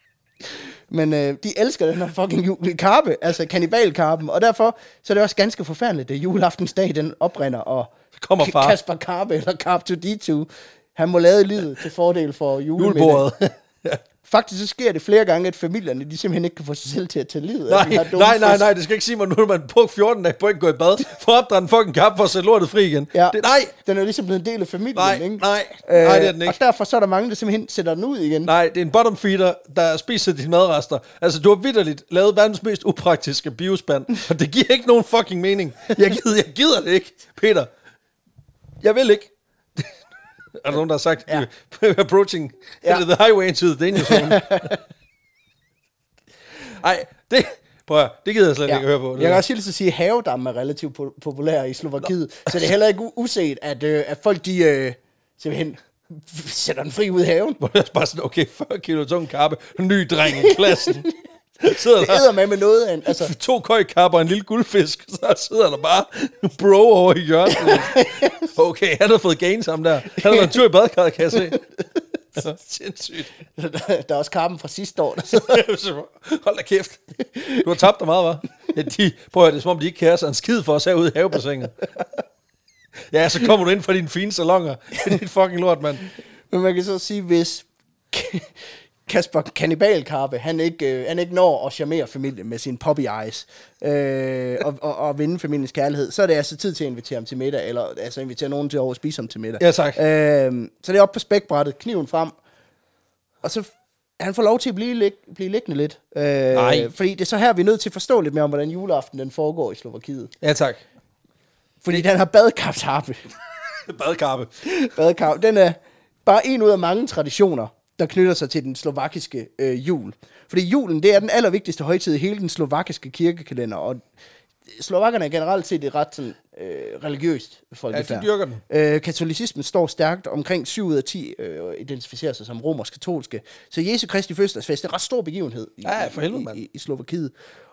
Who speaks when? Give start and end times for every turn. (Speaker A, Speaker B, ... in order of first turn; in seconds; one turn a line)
Speaker A: 0.5-13.3
Speaker B: 8.1-8.8
Speaker B: 12.8-14.0
Speaker A: 14.2-18.7
Speaker B: 17.7-23.7
Speaker A: 23.1-28.5
Speaker B: 24.9-26.6
Speaker B: 28.4-37.7
Speaker B: 38.8-39.9
Speaker B: 40.5-44.8
Speaker A: 43.9-44.8
Speaker B: 46.7-49.4
Speaker A: 48.7-57.6
Speaker B: 57.6-61.1
Speaker A: 60.4-61.1
Speaker B: 61.6-62.3
Speaker A: 61.6-63.3
Speaker B: 63.0-71.6
Speaker A: 67.5-68.5
Speaker A: 70.2-70.5
Speaker B: 72.3-73.3
Speaker A: 73.5-75.6
Speaker B: 75.3-81.8
Speaker B: 83.1-86.0
Speaker A: 86.5-88.5
Speaker A: 89.0-102.3
Speaker B: 99.6-100.0
Speaker A: 103.4-110.3
Speaker B: 106.5-106.9
Speaker B: 110.4-110.8
Speaker A: 111.8-113.2
Speaker B: 113.7-114.5
Speaker A: 114.6-124.0
Speaker A: 124.7-137.3
Speaker B: 127.9-128.6
Speaker B: 135.8-136.6